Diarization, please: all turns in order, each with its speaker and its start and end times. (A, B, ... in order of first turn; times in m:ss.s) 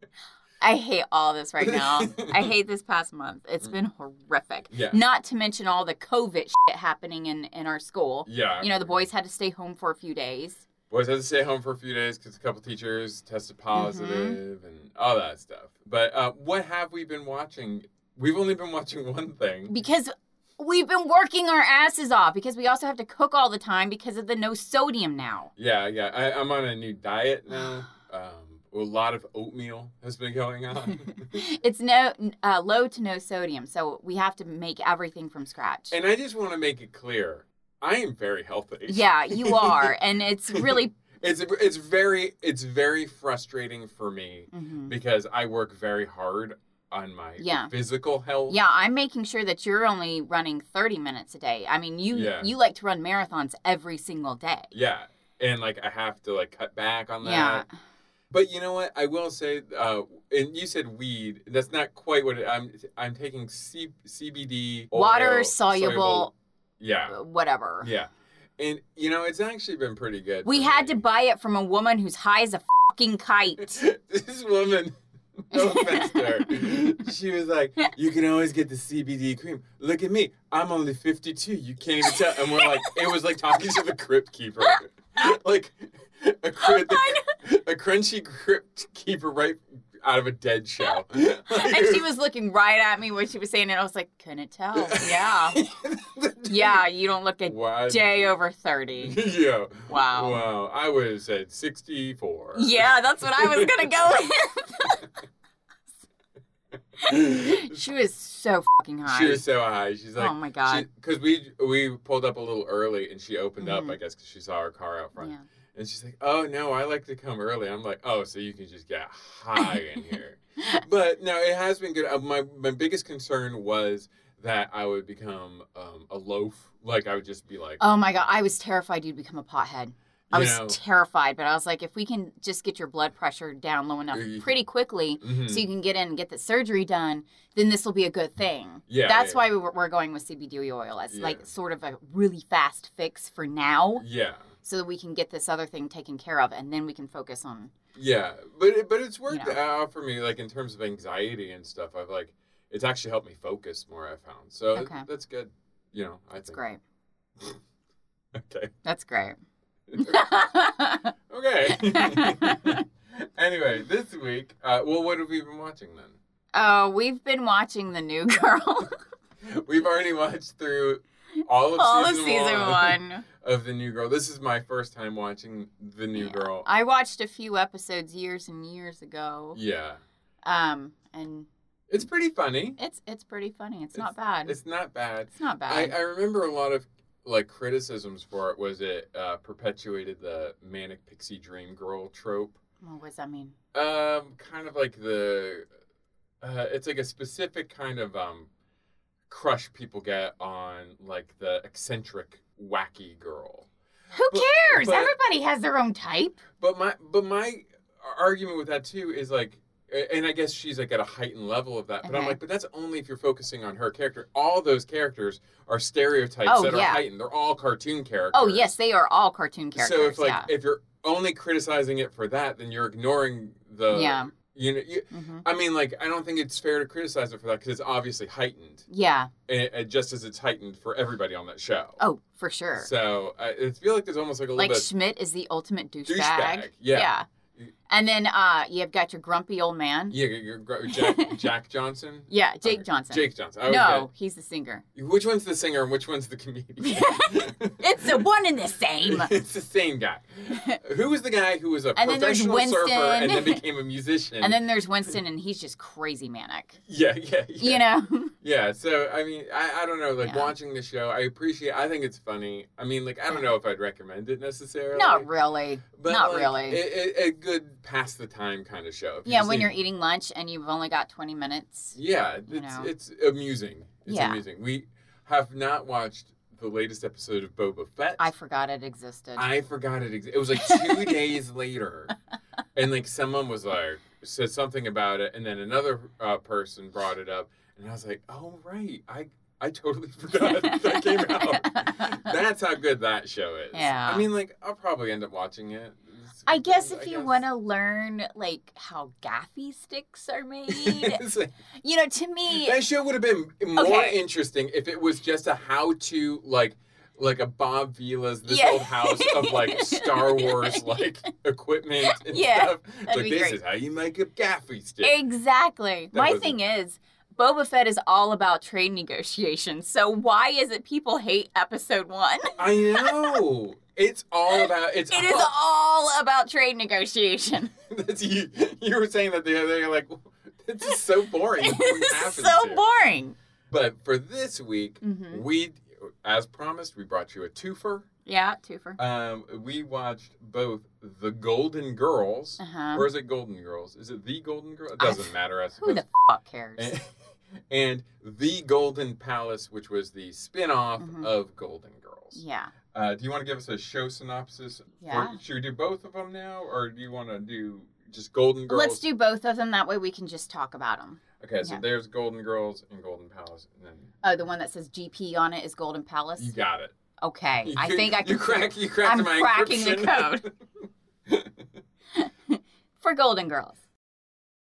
0:00.6-0:10.6 A
0:01.6-0:02.5 B
0:04.7-0:05.0 B
0:08.2-0:09.0 B
0:10.9-0:19.8 B
0:13.7-0:14.4 A
0:19.7-0:25.5 A
0:25.6-0:31.3 B
0:31.3-0:35.9 A
0:35.9-0:39.9 B
0:38.9-0:40.9 A
0:40.5-0:48.6 B
0:44.5-0:44.9 A
0:47.4-0:47.7 A
0:48.5-0:54.7 A
0:52.1-0:52.5 B
0:54.7-0:57.6 B
0:57.2-0:57.7 A
0:58.3-1:07.2 B
1:04.9-1:06.3 A
1:07.1-1:07.9 A
1:07.8-1:11.0 B
1:10.4-1:13.8 A
1:13.6-1:14.9 B
1:15.5-1:32.0 B
1:15.5-1:16.4 A
1:22.6-1:23.1 A
1:26.6-1:27.2 A
1:31.4-1:35.6 A
1:34.8-1:36.8 B
1:36.5-1:39.2 A
1:37.5-1:38.3 B
1:39.0-1:43.9 B
1:39.9-1:40.4 A
1:42.5-1:45.0 A
1:47.0-1:47.8 B
1:47.0-1:49.4 A
1:49.0-2:07.8 B
1:50.2-1:50.8 A
1:53.6-1:54.0 A
1:55.2-1:55.4 A
2:07.8-2:24.0 A
2:10.3-2:10.8 B
2:14.1-2:14.5 B
2:15.2-2:15.7 B
2:18.9-2:19.4 B
2:21.1-2:21.4 B
2:24.0-2:24.4 B
2:24.6-2:27.7 A
2:27.9-2:36.6 B
2:29.3-2:29.6 A
2:34.7-2:35.0 A
2:36.5-2:36.8 A
2:38.3-2:38.7 B
2:38.8-2:39.4 A
2:39.9-2:40.3 B
2:40.0-2:41.1 A
2:41.3-2:46.2 B
2:41.8-2:42.8 A
2:46.5-2:48.9 A
2:49.4-2:56.7 B
2:51.7-2:53.2 A
2:56.2-2:59.6 A
2:59.5-3:00.0 B
3:00.4-3:01.5 A
3:01.9-3:02.8 B
3:02.8-3:04.5 A
3:04.0-3:12.6 B
3:05.4-3:06.0 A
3:12.8-3:13.6 A
3:13.7-3:15.6 B
3:16.4-3:18.5 B
3:19.3-3:23.7 B
3:24.1-3:26.4 A
3:24.3-3:25.1 B
3:26.6-3:38.7 B
3:32.0-3:32.4 A
3:36.4-3:37.0 A
3:38.3-3:40.5 A
3:39.7-3:48.8 B
3:43.9-3:44.3 A
3:45.1-3:45.4 A
3:48.9-3:49.3 A
3:49.5-3:52.0 B
3:52.0-3:52.9 A
3:52.8-3:54.9 B
3:54.6-3:57.2 A
3:56.0-3:57.7 B
3:57.9-4:00.2 A
4:00.1-4:04.1 B
4:00.9-4:01.4 A
4:02.3-4:04.8 A
4:04.9-4:08.2 B
4:06.8-4:09.3 A
4:09.0-4:14.6 B
4:10.5-4:10.8 A
4:12.0-4:13.6 A
4:14.4-4:16.8 A
4:16.8-4:17.8 B
4:17.6-4:18.3 A
4:18.4-4:25.3 B
4:20.2-4:20.5 A
4:24.9-4:26.8 A
4:25.9-4:29.7 B
4:29.2-4:32.0 A
4:31.9-4:38.3 B
4:32.5-4:32.9 A
4:34.1-4:34.4 A
4:38.2-4:39.5 A
4:39.4-4:42.1 B
4:40.6-4:41.2 A
4:42.7-4:57.4 B
4:50.4-4:52.3 A
4:53.7-4:54.3 A
4:56.4-5:01.2 A
5:00.7-5:01.5 B
5:01.8-5:02.8 A
5:02.5-5:15.2 B
5:03.7-5:04.2 A
5:08.4-5:11.0 A
5:12.0-5:13.6 A
5:15.0-5:23.4 A
5:16.1-5:16.6 B
5:22.6-5:25.5 B
5:24.5-5:27.7 A
5:27.9-5:32.8 B
5:31.6-5:33.4 A
5:33.7-5:38.0 B
5:35.0-5:35.4 A
5:38.2-5:39.0 A
5:39.0-5:46.0 B
5:42.6-5:43.1 A
5:45.0-5:46.9 A
5:46.8-5:47.1 B
5:47.7-5:59.0 B
5:51.0-5:51.3 A
5:52.3-5:52.7 A
5:55.0-5:55.4 A
5:58.7-6:01.8 A
6:01.4-6:04.1 B
6:04.2-6:06.5 A
6:06.4-6:06.9 B
6:07.2-6:10.5 A
6:07.6-6:10.5 B
6:11.3-6:11.5 B
6:12.2-6:13.8 A